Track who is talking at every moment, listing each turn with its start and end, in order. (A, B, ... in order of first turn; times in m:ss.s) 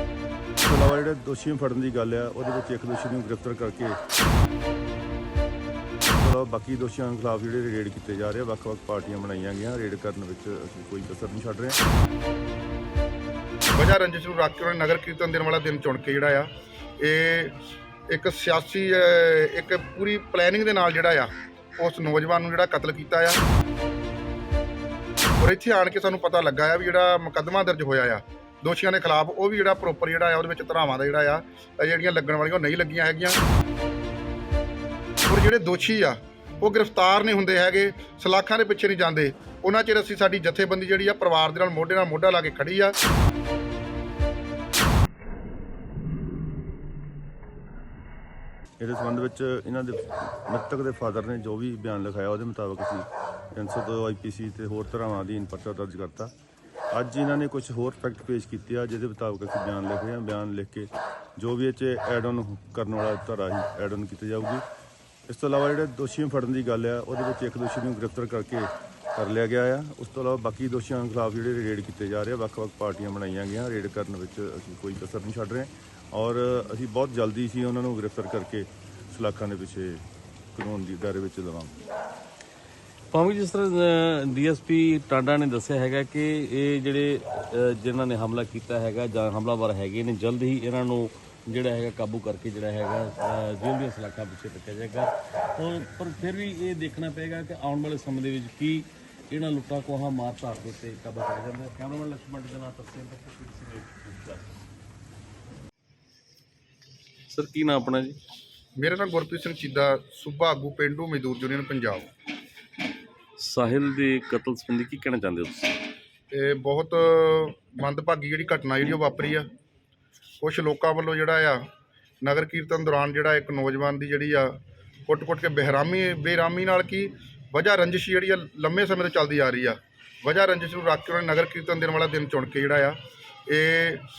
0:00.6-0:04.0 A
0:06.1-0:11.8 A
0:13.8-0:17.6 B
0:18.1-0:23.4 B
0:25.4-0:33.4 B
0:35.3-0:43.0 B
0:48.8-0:56.3 A
0:56.9-1:04.6 A
1:05.3-1:21.8 A
1:23.1-1:44.5 C
1:47.3-1:48.2 C
1:48.8-1:52.1 B
1:53.4-1:55.8 C
1:56.3-1:59.4 B
2:00.4-2:01.7 B
2:02.2-2:04.6 B
2:05.1-2:14.0 B